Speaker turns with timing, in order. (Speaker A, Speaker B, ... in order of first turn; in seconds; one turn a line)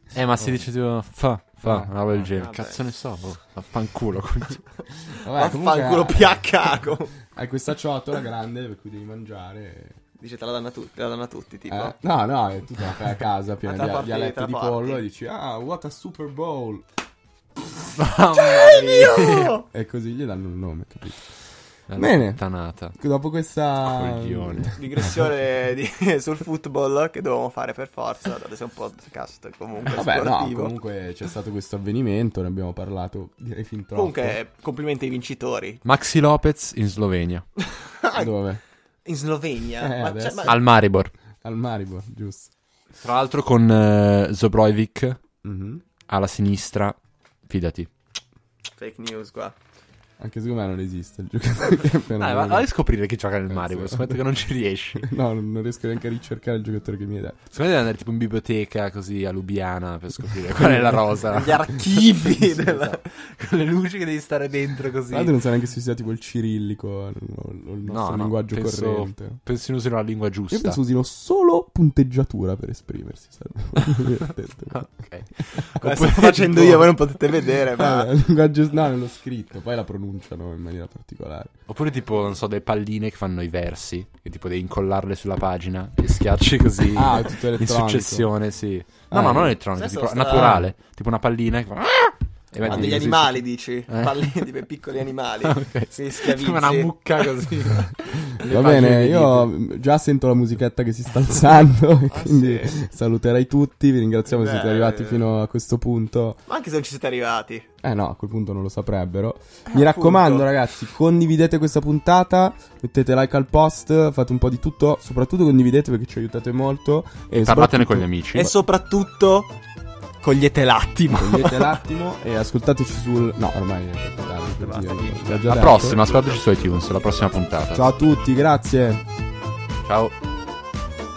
Speaker A: 0.1-4.7
Speaker B: 1.6-2.3
Speaker C: 2.4-2.8
Speaker B: 5.1-10.0
Speaker C: 5.3-7.2
Speaker C: 10.2-11.9
Speaker B: 11.7-16.9
Speaker C: 13.6-15.0
Speaker A: 17.9-19.6
Speaker C: 18.4-19.6
Speaker B: 19.7-21.4
Speaker A: 21.9-23.0
Speaker B: 21.9-24.8
Speaker A: 23.8-24.8
Speaker C: 24.7-30.7
Speaker B: 29.9-34.4
Speaker C: 33.9-35.8
Speaker A: 35.8-37.5
Speaker C: 37.9-38.3
Speaker B: 38.1-38.6
Speaker C: 39.0-40.6
Speaker B: 39.8-40.6
Speaker A: 40.4-41.1
Speaker B: 41.4-42.5
Speaker A: 43.0-45.2
Speaker B: 45.4-45.8
Speaker A: 46.1-47.9
Speaker C: 48.8-49.5
Speaker B: 50.2-52.7
Speaker A: 52.2-55.1
Speaker B: 53.5-54.2
Speaker B: 55.0-57.4
Speaker A: 57.5-65.3
Speaker B: 60.5-61.1
Speaker C: 61.3-63.0
Speaker B: 65.1-69.4
Speaker A: 67.8-70.8
Speaker B: 70.5-75.1
Speaker A: 74.7-77.0
Speaker C: 75.7-78.1
Speaker B: 77.8-81.5
Speaker A: 81.7-94.2
Speaker B: 86.9-88.3
Speaker B: 89.1-89.6
Speaker C: 89.7-90.6
Speaker B: 90.3-90.7
Speaker C: 92.6-97.6
Speaker B: 92.6-93.1
Speaker A: 95.4-99.5
Speaker B: 98.5-106.4
Speaker C: 102.1-102.8
Speaker C: 104.2-105.2
Speaker C: 106.5-107.7
Speaker B: 107.8-118.4
Speaker C: 109.7-110.5
Speaker A: 117.3-118.5
Speaker C: 118.3-119.5
Speaker C: 120.2-121.8
Speaker B: 121.1-126.0
Speaker C: 124.5-127.3
Speaker A: 125.5-127.9
Speaker B: 127.7-129.0
Speaker A: 129.8-130.1